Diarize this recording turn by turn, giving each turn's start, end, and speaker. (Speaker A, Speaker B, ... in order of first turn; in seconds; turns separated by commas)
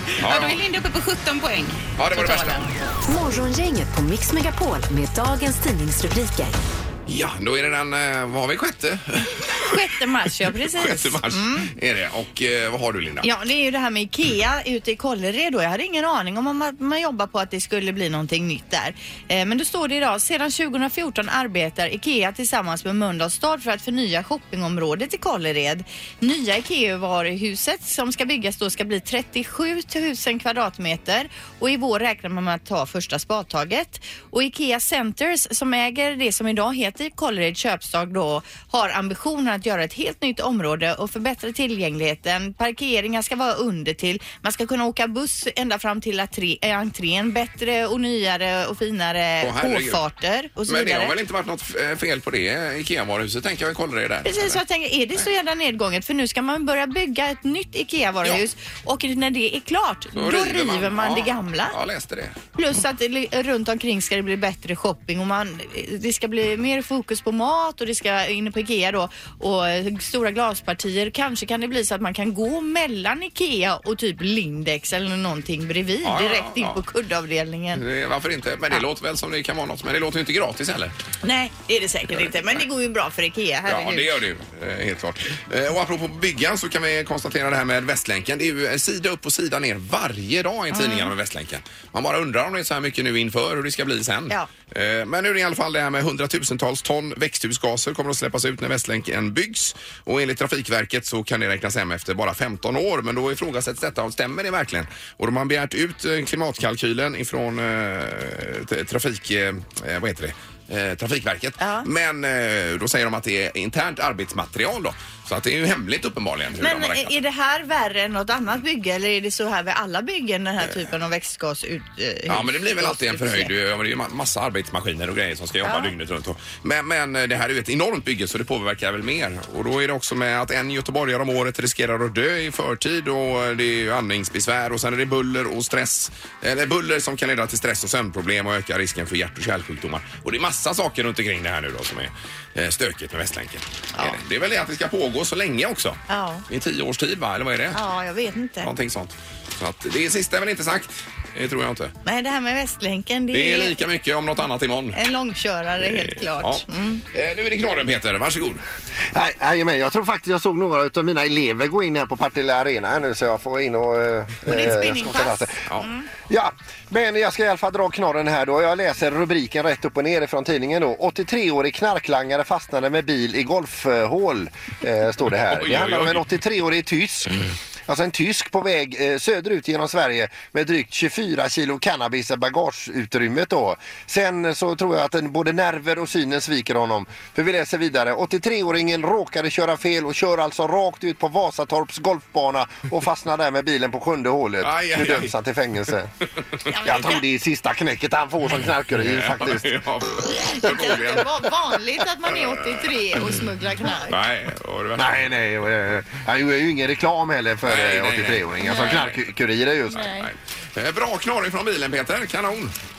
Speaker A: 0.2-0.6, Speaker B: 0.2-2.7, Speaker A: 2.0-2.7, Speaker C: 3.1-6.6, Speaker A: 7.1-9.8, Speaker D: 9.6-11.7, Speaker A: 10.6-13.3, Speaker D: 13.2-51.1, Speaker A: 49.4-50.0, Speaker A: 50.7-54.6, Speaker D: 54.2-61.7, Speaker A: 60.1-62.4, Speaker D: 62.5-77.8, Speaker A: 76.0-76.8, Speaker A: 77.7-80.9, Speaker D: 81.2-84.2, Speaker A: 83.7-117.1, Speaker D: 90.7-91.1, Speaker D: 111.6-111.9, Speaker D: 116.6-123.5, Speaker A: 122.3-147.8, Speaker D: 125.6-125.9, Speaker D: 146.1-146.4, Speaker D: 147.7-148.7, Speaker A: 148.6-151.9, Speaker D: 152.0-153.8, Speaker A: 153.3-154.9, Speaker D: 154.9-157.0, Speaker A: 155.8-156.6, Speaker A: 157.1-158.6, Speaker E: 159.1-165.6, Speaker D: 164.4-166.1, Speaker E: 166.3-177.3, Speaker A: 175.4-176.2, Speaker E: 177.9-196.1, Speaker A: 194.6-195.3, Speaker D: 196.7-197.2, Speaker E: 196.8-199.8, Speaker A: 198.9-201.3, Speaker D: 200.5-204.2, Speaker A: 204.1-205.3, Speaker E: 204.9-210.1, Speaker A: 207.6-209.2, Speaker D: 208.6-208.9, Speaker D: 209.9-210.2, Speaker A: 210.2-212.7